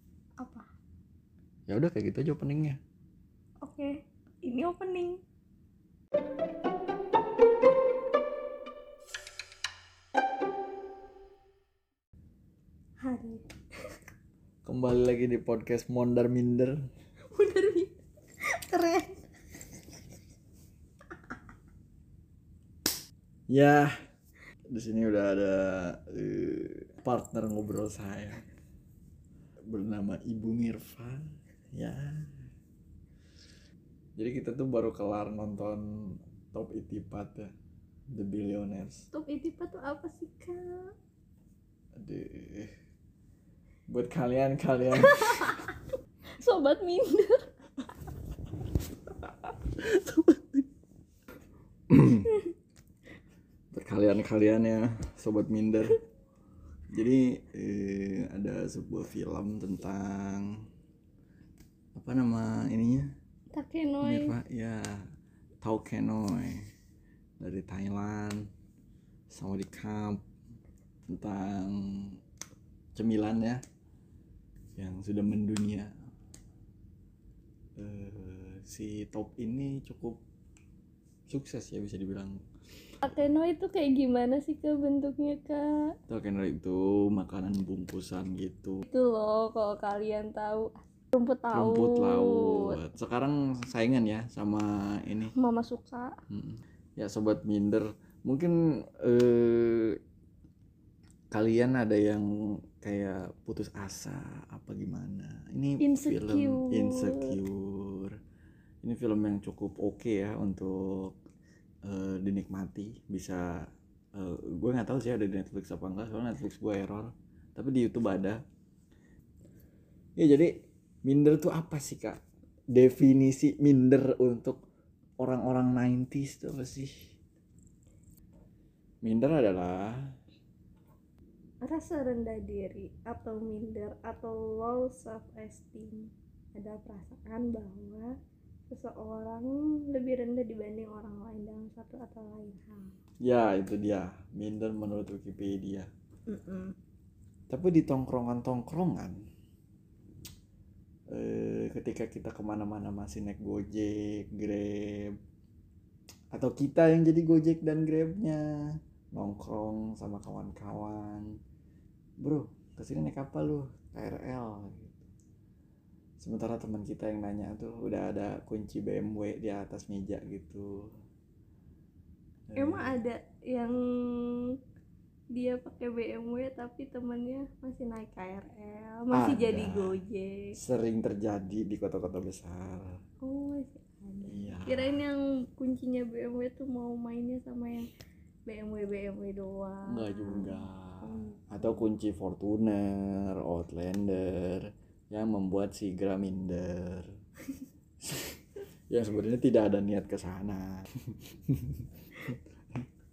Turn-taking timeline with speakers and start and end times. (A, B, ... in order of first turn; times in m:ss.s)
0:00.4-0:00.7 A
0:01.7-0:02.8 B
0:03.6-0:03.9 A
0:04.4-0:05.2 A
0:13.0-0:13.4 A
0:14.6-0:16.8 B
0:17.3-0:17.9 A
0:18.5-0:19.2 A
0:23.5-0:23.9 B
0:24.7-0:28.4 B
0:29.7-0:31.2 B
0:31.7-0:32.3 B
0:34.2-0:35.8 B
0:36.5-0:37.5 B
0:38.1-0:39.1 B
0:39.1-0:40.9 A
0:42.0-0:42.7 B
0:43.9-0:45.6 B
0:44.9-0:45.8 A
0:46.4-0:47.5 A
0:49.8-0:50.6 B
0:51.9-0:52.3 B
0:53.7-0:56.0 B
0:56.9-1:00.6 B
1:02.0-1:03.1 B
1:03.5-1:04.4 A
1:04.0-1:05.1 B
1:05.6-1:06.7 B
1:07.4-1:08.5 B
1:09.3-1:10.2 B
1:11.1-1:12.2 B
1:13.0-1:13.6 B
1:14.8-1:15.9 B
1:17.8-1:20.2 B
1:21.3-1:22.4 B
1:23.0-1:25.9 A
1:26.1-1:28.8 B
1:28.9-1:32.8 A
1:31.5-1:35.3 B
1:35.4-1:36.2 A
1:36.3-1:40.0 B
1:41.3-1:48.2 B
1:45.8-1:47.4 A
1:48.8-1:51.1 B
1:51.9-1:53.5 B
1:54.2-1:58.4 B
2:00.2-2:00.5 B
2:01.0-2:02.2 B
2:02.7-2:04.6 B
2:05.2-2:07.1 B
2:09.0-2:10.2 B
2:11.6-2:18.1 A
2:18.7-2:22.9 A
2:23.2-2:25.9 B
2:26.3-2:26.8 A
2:27.5-2:29.2 B
2:31.1-2:35.2 B
2:36.3-2:38.4 B
2:39.1-2:41.3 B
2:42.2-2:45.1 B
2:46.2-2:50.7 B
2:52.5-2:53.0 B
2:52.6-2:54.5 A
2:55.4-3:00.5 A
2:59.1-3:00.0 B
3:00.6-3:02.9 B
3:03.2-3:07.9 A
3:04.3-3:05.0 B
3:08.5-3:11.8 A
3:09.9-3:17.1 B
3:18.0-3:18.4 B
3:18.9-3:22.4 B